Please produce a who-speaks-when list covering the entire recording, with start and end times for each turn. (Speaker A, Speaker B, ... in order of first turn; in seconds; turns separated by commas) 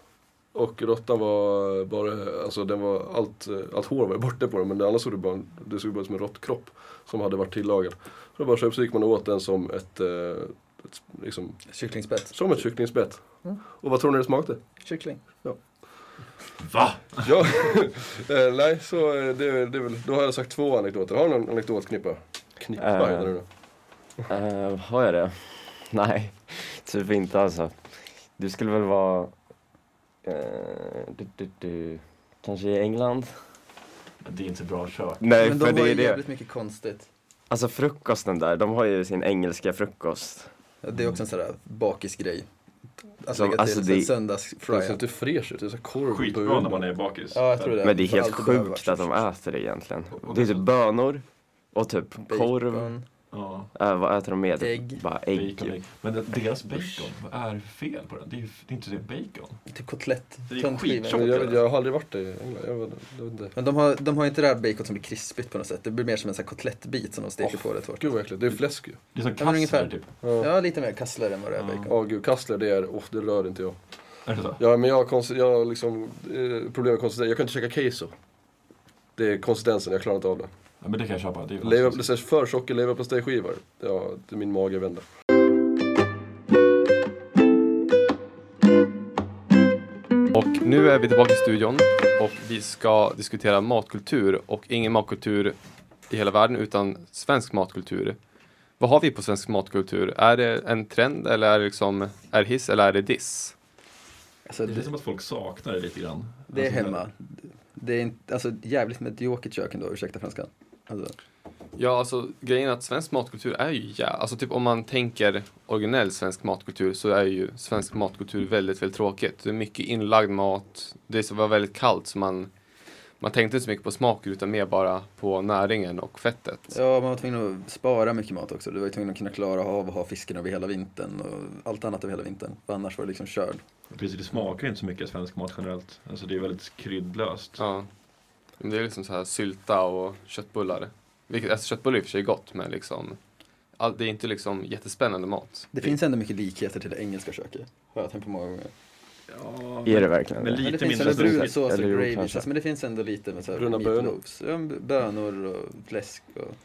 Speaker A: 0.5-11.8, Speaker B: 11.7-12.6, Speaker A: 12.3-14.6, Speaker B: 14.8-15.4, Speaker C: 16.6-17.4, Speaker A: 17.2-23.4, Speaker D: 22.8-23.4, Speaker D: 24.3-29.3, Speaker D: 30.2-33.4, Speaker C: 34.2-35.2, Speaker D: 35.2-36.2, Speaker B: 35.4-37.1, Speaker D: 37.5-40.5, Speaker B: 40.8-42.5, Speaker B: 43.2-45.0, Speaker D: 43.3-44.1, Speaker A: 44.7-46.9, Speaker C: 46.1-47.9, Speaker B: 47.3-49.2, Speaker D: 47.8-52.9, Speaker C: 50.2-50.6, Speaker B: 52.2-53.0, Speaker C: 53.3-53.7, Speaker D: 53.7-55.8, Speaker B: 54.6-55.0, Speaker C: 55.3-59.6, Speaker B: 59.7-61.5, Speaker C: 60.5-61.6, Speaker A: 61.1-63.5, Speaker B: 63.5-68.1, Speaker A: 67.4-69.0, Speaker C: 69.1-70.1, Speaker B: 69.4-71.9, Speaker A: 70.2-70.5, Speaker C: 71.6-71.9, Speaker A: 71.9-78.1, Speaker C: 74.2-74.6, Speaker A: 79.2-80.5, Speaker C: 80.8-82.1, Speaker A: 81.6-85.0, Speaker E: 90.3-95.5, Speaker E: 96.1-98.2, Speaker E: 98.8-103.5, Speaker B: 104.5-104.9, Speaker C: 104.6-107.0, Speaker B: 106.5-111.2, Speaker E: 111.8-122.5, Speaker E: 123.2-126.8, Speaker B: 126.7-133.6, Speaker C: 133.9-137.6, Speaker E: 137.6-137.9, Speaker E: 138.6-143.2, Speaker E: 143.8-145.9, Speaker B: 145.7-148.7, Speaker C: 149.3-151.8, Speaker D: 149.8-152.5, Speaker B: 150.6-156.6, Speaker A: 153.5-154.2